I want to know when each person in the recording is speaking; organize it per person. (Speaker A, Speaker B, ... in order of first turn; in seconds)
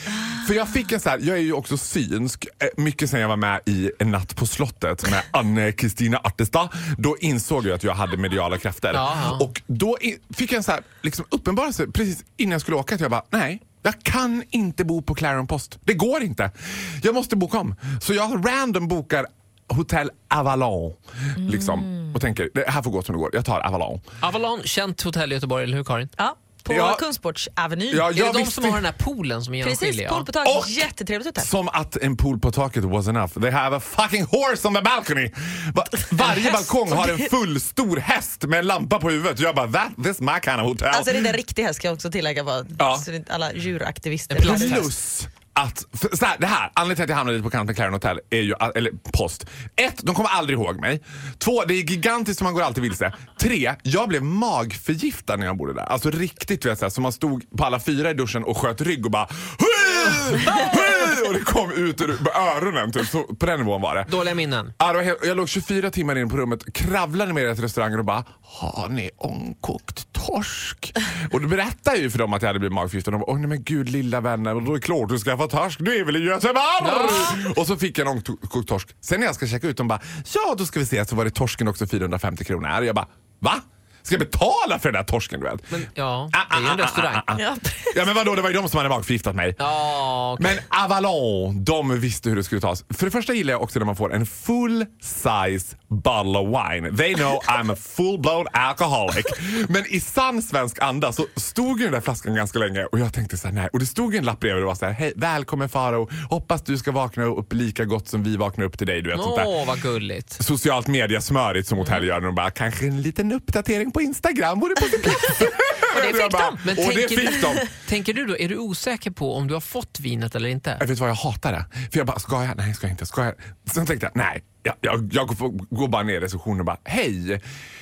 Speaker A: 0.3-24.0, 26.7-27.0, 27.9-28.8, 30.4-41.3, 42.8-43.0, 44.4-64.2, 64.8-85.8, 86.3-89.6, 90.4-109.5, 110.4-117.7, 120.8-127.4
Speaker B: 8.9-9.5, 24.2-26.1, 28.1-30.3, 44.3-44.9, 64.1-64.7, 76.8-77.4, 85.7-87.2, 89.6-90.6, 109.1-110.4, 116.6-120.8
Speaker C: 21.4-22.1, 26.2-28.1, 29.6-31.5, 36.2-37.2, 40.9-44.9, 87.3-88.0, 115.3-116.6